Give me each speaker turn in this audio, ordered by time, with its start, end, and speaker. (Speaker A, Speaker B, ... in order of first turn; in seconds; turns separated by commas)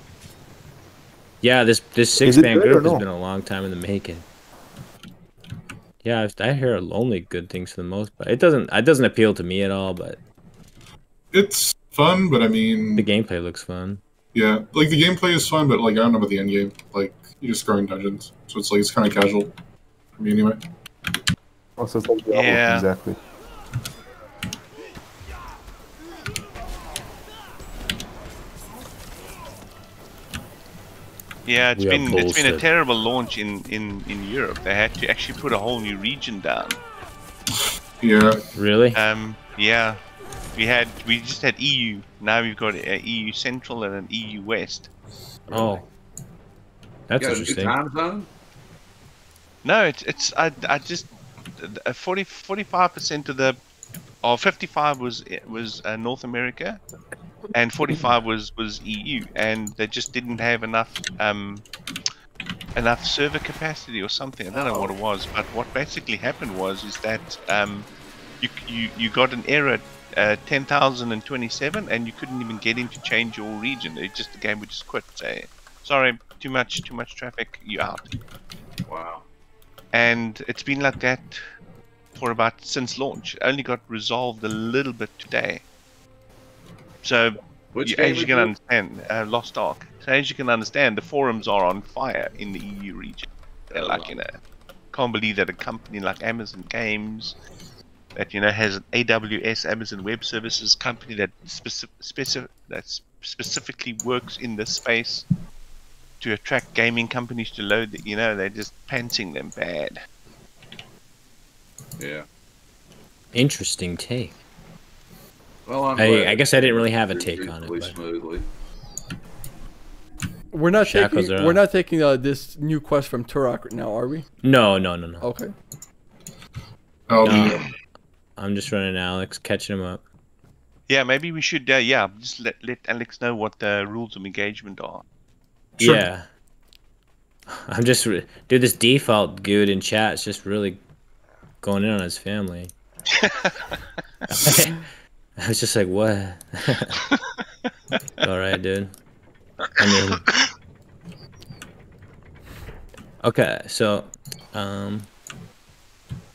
Speaker A: 1.4-4.2, Speaker B: 2.2-3.0, Speaker A: 6.0-10.2, Speaker C: 11.3-13.1, Speaker A: 13.0-14.0, Speaker C: 14.3-19.5, Speaker C: 20.2-20.6, Speaker B: 21.8-23.2, Speaker D: 22.3-22.9, Speaker D: 31.4-36.8, Speaker A: 31.8-32.7, Speaker C: 38.0-38.4, Speaker A: 38.6-39.0, Speaker D: 39.0-40.0, Speaker D: 40.5-44.9, Speaker A: 45.5-45.8, Speaker E: 45.5-45.8, Speaker A: 47.1-47.8, Speaker E: 47.2-48.3, Speaker D: 49.6-53.6, Speaker D: 54.2-56.8, Speaker D: 57.5-61.7, Speaker D: 62.8-67.9, Speaker E: 64.5-64.9, Speaker D: 68.4-78.0, Speaker E: 78.9-79.3, Speaker D: 79.9-81.4, Speaker D: 82.2-85.7, Speaker D: 87.0-94.4, Speaker E: 87.7-88.5, Speaker E: 93.7-94.2, Speaker D: 94.9-97.4, Speaker D: 98.2-105.2, Speaker D: 106.2-110.0, Speaker E: 112.0-112.3, Speaker A: 113.3-114.4, Speaker E: 115.7-118.5, Speaker A: 116.0-118.0, Speaker F: 120.5-124.3, Speaker A: 120.8-121.6, Speaker A: 124.4-125.3, Speaker F: 125.2-125.5, Speaker C: 127.1-127.7, Speaker A: 127.2-127.6, Speaker A: 128.4-130.0, Speaker D: 130.9-135.0, Speaker C: 135.8-136.1, Speaker A: 135.8-136.3, Speaker A: 137.5-140.8, Speaker A: 141.6-142.7, Speaker D: 143.2-143.5, Speaker A: 144.3-147.0, Speaker A: 148.2-148.9, Speaker D: 149.7-150.5, Speaker A: 149.8-150.2, Speaker A: 153.2-155.1